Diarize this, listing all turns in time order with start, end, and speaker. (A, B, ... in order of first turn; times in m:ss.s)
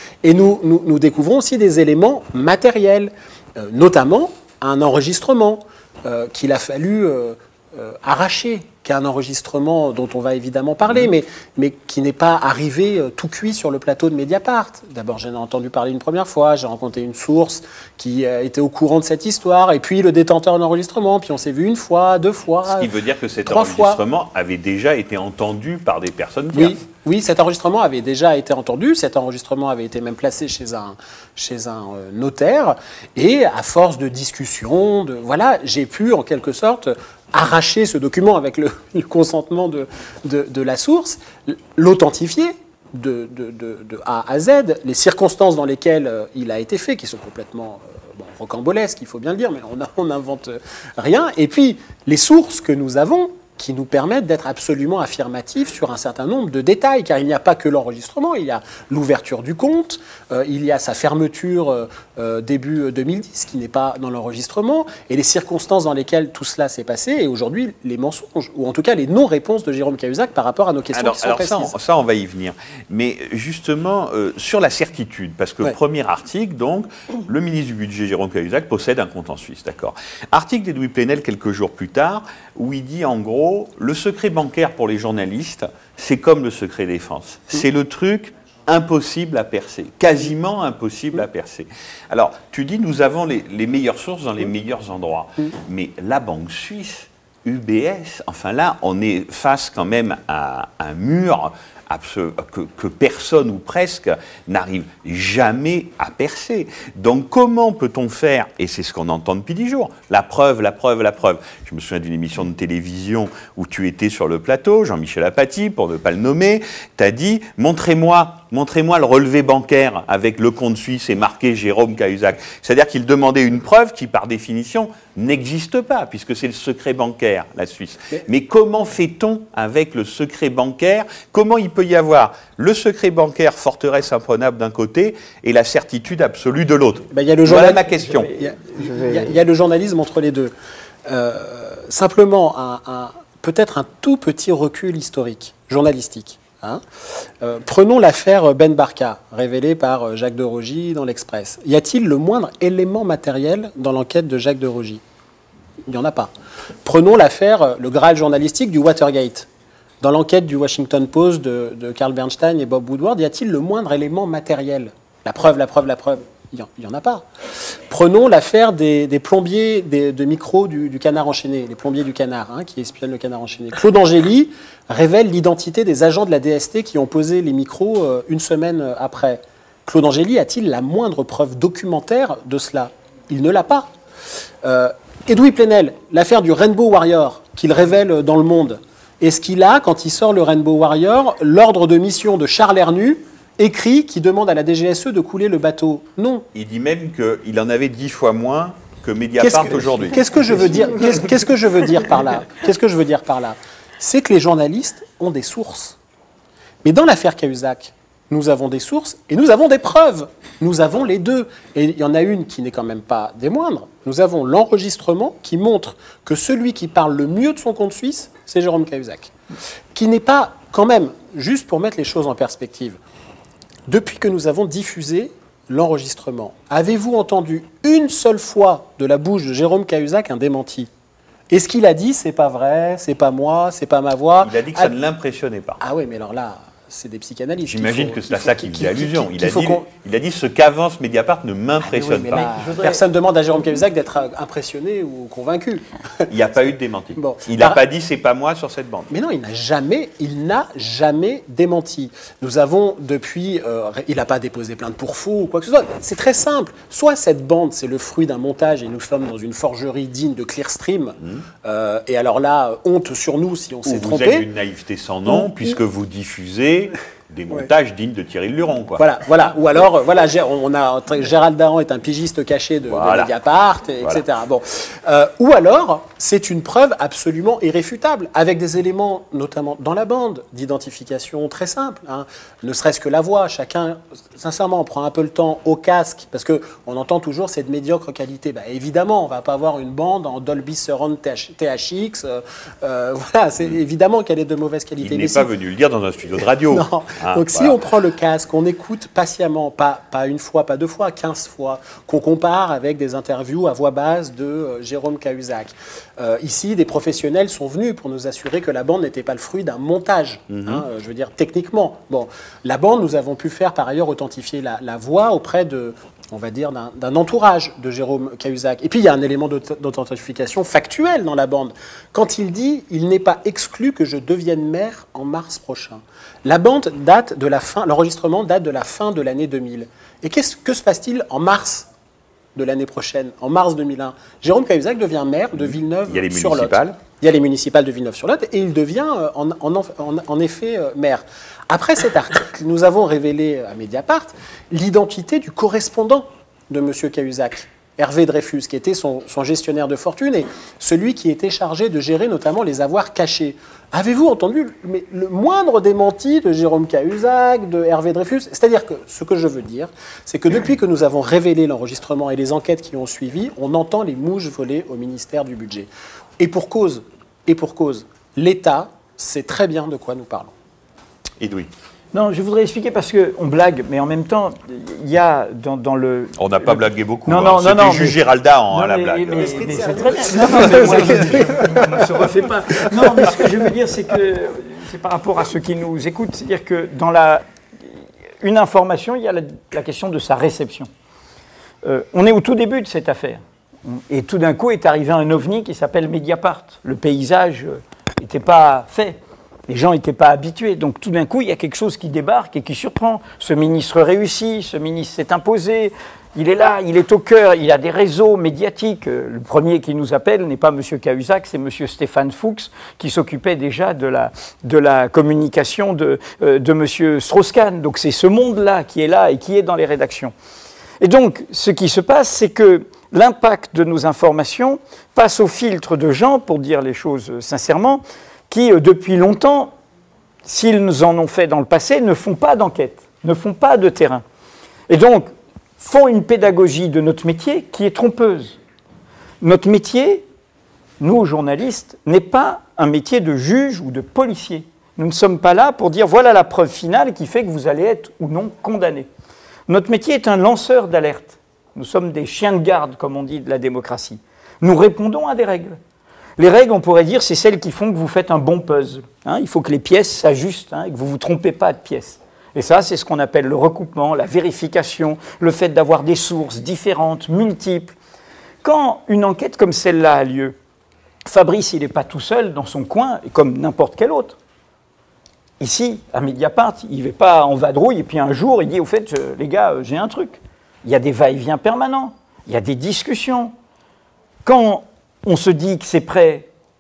0:00.2-0:22.9 A
0:22.7-0:26.8 B
0:23.5-0:24.0 A
0:26.5-1:11.7 A
1:10.9-2:18.3 B
2:17.1-2:20.5 A
2:18.1-2:19.4 C
2:21.1-2:26.8 A
2:27.4-2:35.0 A
2:35.9-2:36.3 A
2:36.8-2:39.5 A
2:40.0-3:03.9 A
3:04.6-3:16.5 A
3:16.6-3:20.9 B
3:19.4-3:26.0 A
3:26.8-3:39.3 A
3:39.9-3:43.0 A
3:43.9-3:50.9 A
3:51.5-3:55.0 A
3:54.4-3:55.8 B
3:55.8-3:59.9 A
3:57.6-4:02.5 B
4:01.8-4:06.3 A
4:02.3-4:03.0 C
4:06.3-4:09.1 B
4:07.2-4:07.8 A
4:09.1-4:24.5 A
4:23.9-4:29.1 B
4:29.0-4:55.5 A
4:32.9-4:33.3 B
4:55.0-4:57.8 B
4:56.7-5:31.9 A
5:10.5-5:10.8 B
5:32.6-6:10.5 A
5:36.1-5:37.0 B
6:11.4-6:11.7 B
6:12.1-6:18.2 C
6:16.4-6:21.4 B
6:18.7-6:27.4 C
6:19.3-6:21.8 A
6:28.4-6:30.9 C
6:31.8-7:00.3 C
7:01.0-7:09.7 C
7:10.4-7:14.2 C
7:14.9-7:18.6 C
7:19.4-7:20.3 C
7:21.0-7:29.1 C
7:29.7-7:35.8 C
7:36.4-7:47.9 C
7:48.6-7:50.6 C
7:51.3-7:54.4 C
7:55.6-8:03.5 C
8:04.4-8:06.5 C